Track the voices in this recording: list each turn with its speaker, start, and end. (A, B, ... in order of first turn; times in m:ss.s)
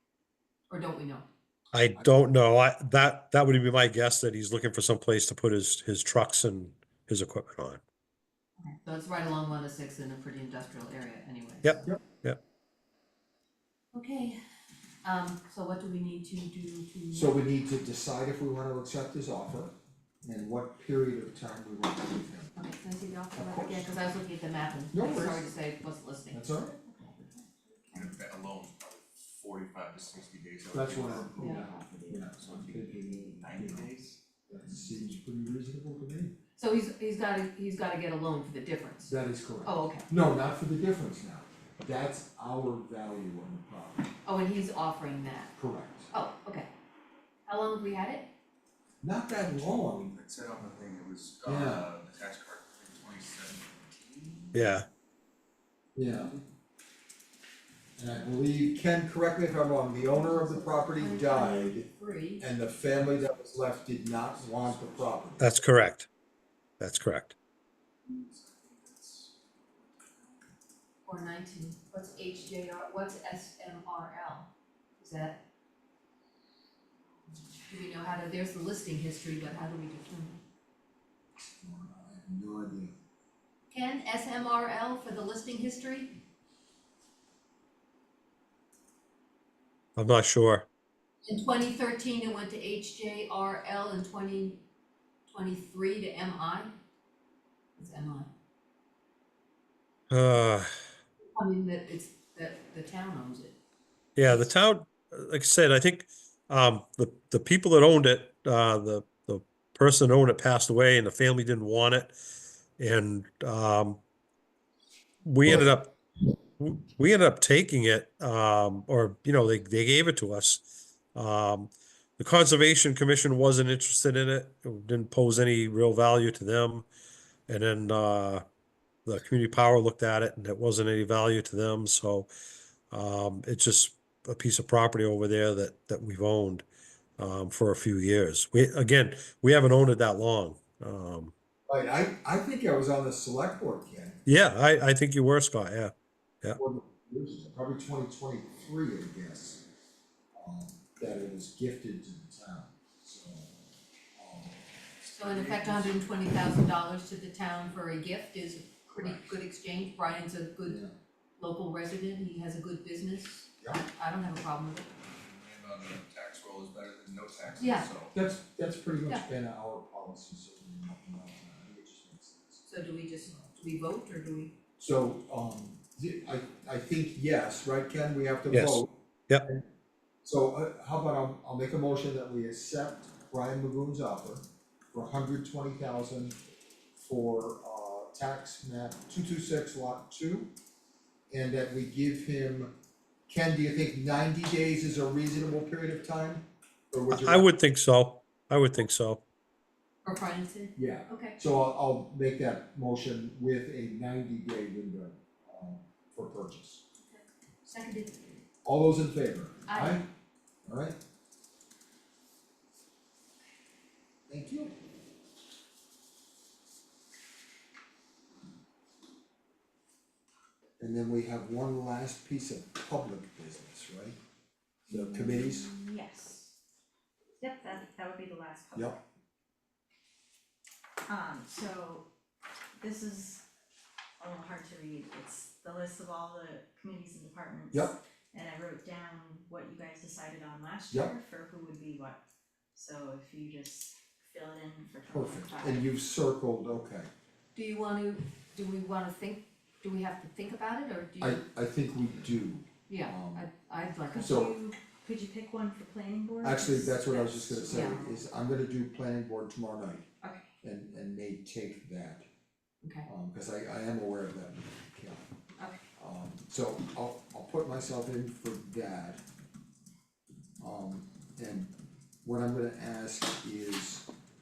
0:00.7-0:01.2 A
0:01.7-0:07.8 B
0:01.7-0:02.3 C
0:08.6-0:11.9 A
0:11.6-0:12.4 B
0:13.9-0:14.4 A
0:15.0-0:17.3 A
0:17.1-0:22.5 C
0:22.6-0:26.4 A
0:23.4-0:23.9 C
0:24.9-0:25.4 C
0:26.3-0:26.7 C
0:26.6-0:28.0 D
0:27.9-0:34.2 E
0:30.7-0:33.9 C
0:31.4-0:31.7 A
0:31.4-0:31.8 D
0:34.5-0:36.4 C
0:36.6-0:40.0 A
0:39.1-0:44.1 C
0:44.2-0:45.5 A
0:45.6-0:46.1 C
0:46.1-0:46.7 A
0:47.5-0:48.3 A
0:49.0-0:50.1 C
0:49.5-0:54.7 E
0:51.4-0:51.9 C
0:54.5-0:54.8 B
0:56.0-0:56.3 C
0:58.0-1:01.9 C
1:00.1-1:02.4 A
1:02.4-1:05.5 C
1:04.0-1:05.4 E
1:05.4-1:06.1 B
1:06.8-1:07.3 B
1:08.1-1:10.4 E
1:11.0-1:15.4 A
1:17.7-1:20.4 A
1:21.6-1:22.9 C
1:23.7-1:26.2 A
1:30.0-1:30.6 B
1:31.2-1:34.6 A
1:35.3-1:36.7 A
1:37.8-1:38.3 A
1:40.1-1:40.7 B
1:41.4-1:43.6 A
1:44.2-1:52.2 B
1:52.8-1:54.0 B
1:55.2-1:55.9 B
1:56.6-2:00.6 B
2:01.1-2:06.9 B
2:07.5-2:08.4 B
2:09.0-2:12.3 B
2:12.9-2:16.6 B
2:17.2-2:21.3 B
2:21.7-2:24.2 C
2:24.2-2:25.9 B
2:26.6-2:29.6 C
2:30.4-2:33.5 C
2:34.2-2:34.6 C
2:35.0-2:36.2 E
2:35.1-2:40.8 A
2:40.6-2:40.9 C
2:41.4-2:44.9 A
2:45.1-2:48.2 E
2:47.6-2:47.9 A
2:48.1-2:52.6 C
2:52.7-2:54.5 A
2:54.8-2:58.9 C
2:58.5-2:59.4 B
3:00.2-3:06.4 C
3:07.0-3:10.5 C
3:11.3-3:12.7 C
3:13.3-3:17.4 C
3:17.1-3:19.2 B
3:20.0-3:21.4 A
3:20.8-3:26.8 C
3:27.6-3:28.2 A
3:28.6-3:30.0 C
3:29.7-3:30.0 A
3:30.6-3:31.0 C
3:34.3-3:34.7 C
3:40.8-3:44.2 C
3:44.9-3:45.7 C
3:44.9-3:46.5 D
3:47.4-3:49.0 D
3:51.1-3:52.0 D
3:52.8-3:53.4 D
3:54.2-4:02.2 D
3:57.7-3:58.0 C
4:02.7-4:05.9 D
4:05.1-4:07.1 C
4:07.5-4:11.4 A
4:11.2-4:13.5 C
4:12.9-4:14.5 A
4:14.1-4:18.2 D
4:14.2-4:14.5 C
4:16.4-4:20.0 C
4:17.7-4:18.0 A
4:20.6-4:22.2 C
4:23.0-4:25.2 C
4:26.0-4:29.2 C
4:30.6-4:31.7 C
4:32.2-4:34.0 C